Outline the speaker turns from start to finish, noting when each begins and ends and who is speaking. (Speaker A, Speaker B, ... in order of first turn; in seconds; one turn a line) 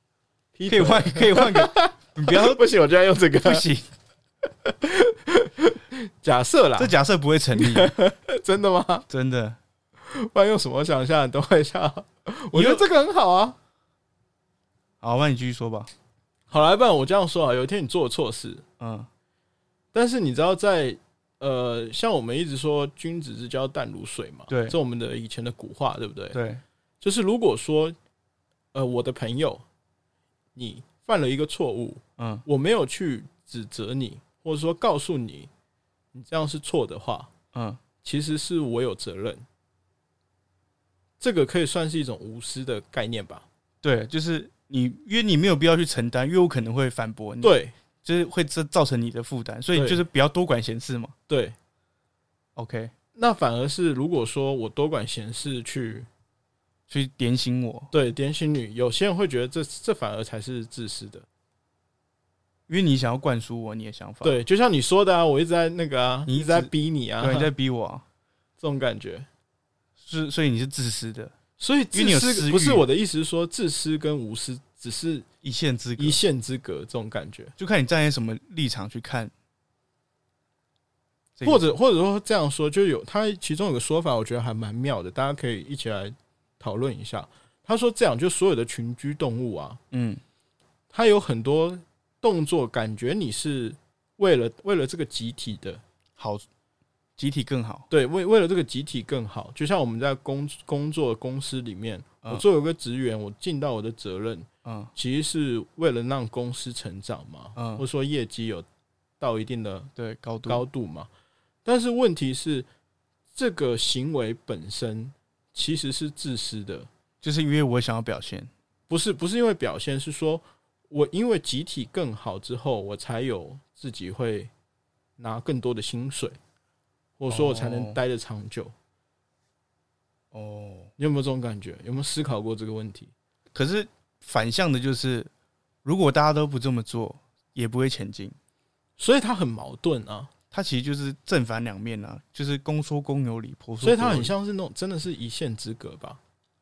Speaker A: 0.6-3.7
Speaker B: 0.7-2.6
Speaker B: 3.4-3.9
Speaker A: 4.7-6.9
Speaker B: 6.8-7.9
Speaker A: 7.5-9.1
Speaker B: 9.1-9.6
Speaker A: 10.0-13.6
Speaker B: 12.5-12.8
Speaker B: 15.0-15.9
Speaker A: 16.5-18.6
Speaker B: 18.8-19.1
Speaker A: 19.9-26.4
Speaker B: 24.5-24.8
Speaker B: 26.3-26.6
Speaker A: 27.0-28.0
Speaker A: 28.7-29.6
Speaker A: 30.6-35.5
Speaker B: 32.2-32.5
Speaker A: 36.1-37.3
Speaker B: 37.5-37.8
Speaker A: 38.0-39.4
Speaker A: 41.2-43.5
Speaker B: 43.8-51.1
Speaker A: 47.4-47.7
Speaker A: 49.8-50.0
Speaker A: 51.3-51.5
Speaker B: 52.6-52.9
Speaker A: 53.2-56.1
Speaker B: 56.9-57.9
Speaker A: 57.9-61.3
Speaker B: 62.7-64.4
Speaker A: 64.2-67.5
Speaker B: 66.3-68.0
Speaker A: 68.6-69.3
Speaker B: 70.0-71.3
Speaker A: 71.6-75.3
Speaker B: 71.9-72.8
Speaker B: 75.4-76.2
Speaker A: 76.0-77.5
Speaker B: 77.6-79.3
Speaker B: 81.4-81.6
Speaker A: 81.4-89.8
Speaker B: 89.9-90.2
Speaker A: 90.9-95.8
Speaker B: 96.2-96.5
Speaker B: 97.2-97.9
Speaker A: 97.9-108.7
Speaker B: 104.7-104.9
Speaker B: 107.6-107.8
Speaker A: 109.2-109.9
Speaker B: 110.0-110.6
Speaker A: 110.5-111.1
Speaker A: 111.7-112.7
Speaker A: 113.3-116.9
Speaker B: 117.2-118.5
Speaker A: 118.9-124.5
Speaker A: 125.2-126.4
Speaker A: 127.2-128.7
Speaker B: 127.3-128.0
Speaker B: 130.3-130.9
Speaker A: 131.0-133.1
Speaker B: 133.5-135.3
Speaker B: 135.8-138.4
Speaker A: 139.0-140.3
Speaker B: 140.5-144.3
Speaker A: 143.8-146.2